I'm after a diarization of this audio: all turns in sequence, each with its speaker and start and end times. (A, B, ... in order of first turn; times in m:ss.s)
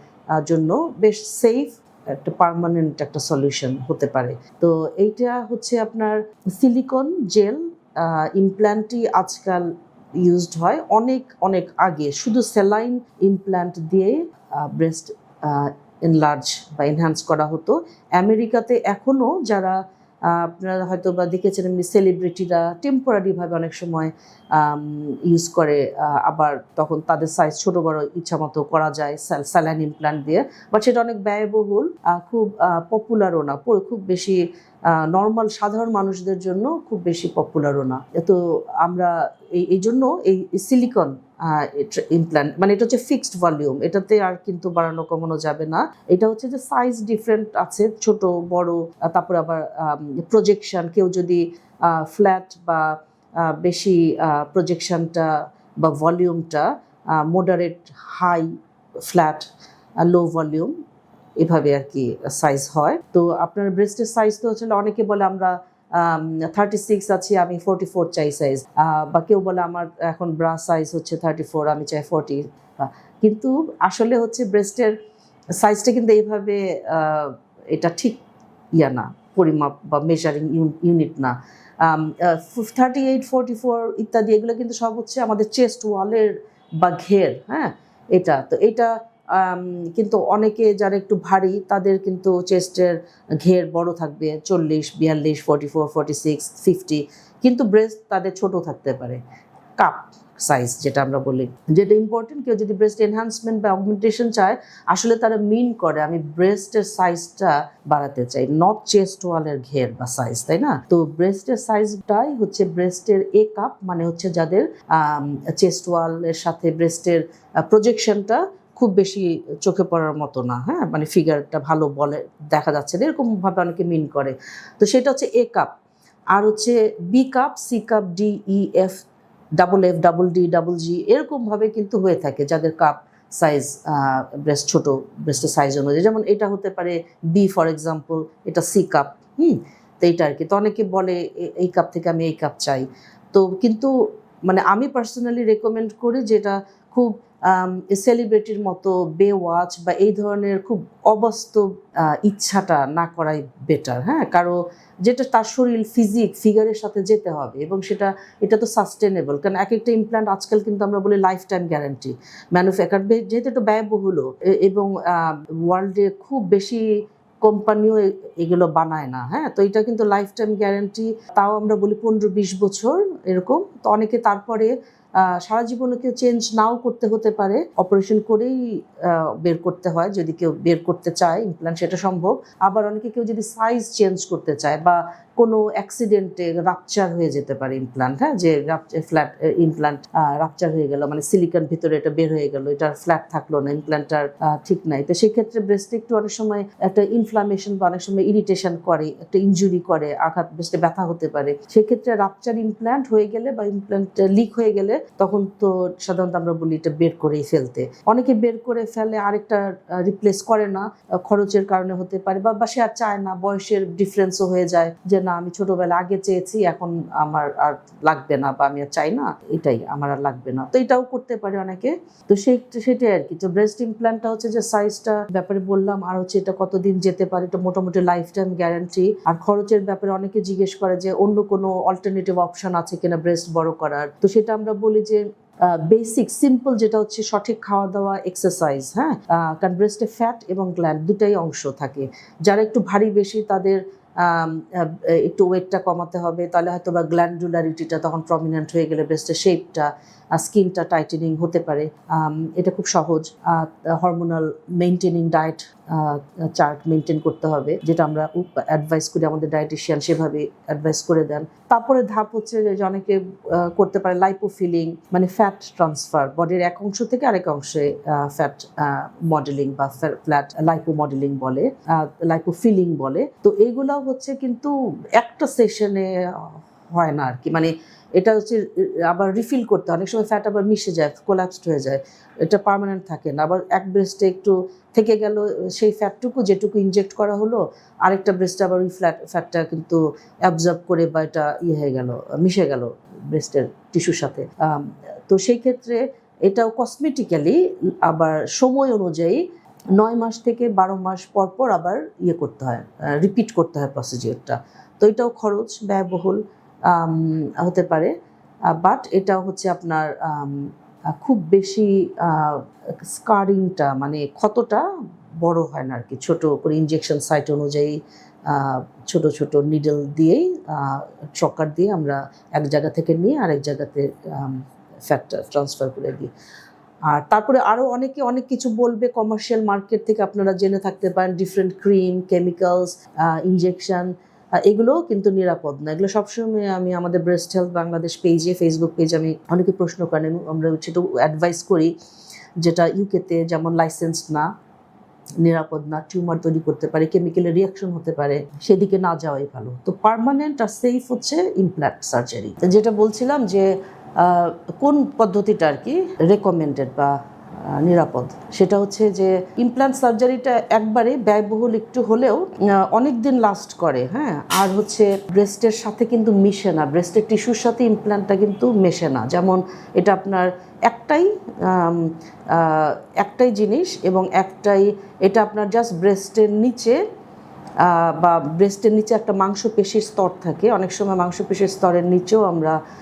0:00.4-0:09.6 A
0:10.2-0:34.4 A
0:34.9-0:58.5 A
0:59.0-0:59.5 A
1:00.0-1:00.7 A
1:01.4-1:14.9 A
1:15.6-1:18.2 A
1:18.7-1:39.2 A
1:39.8-2:05.7 A
2:06.3-2:09.0 A
2:09.6-2:23.9 A
2:24.4-2:46.8 A
2:47.4-4:59.4 A
5:00.0-5:08.1 A
5:08.7-5:14.8 A
5:15.4-5:18.0 A
5:18.5-5:26.3 A
5:27.1-5:34.1 A
5:34.6-5:41.9 A
5:42.6-5:44.5 A
5:45.4-5:53.7 A
5:54.2-6:17.0 A
6:17.8-6:22.8 A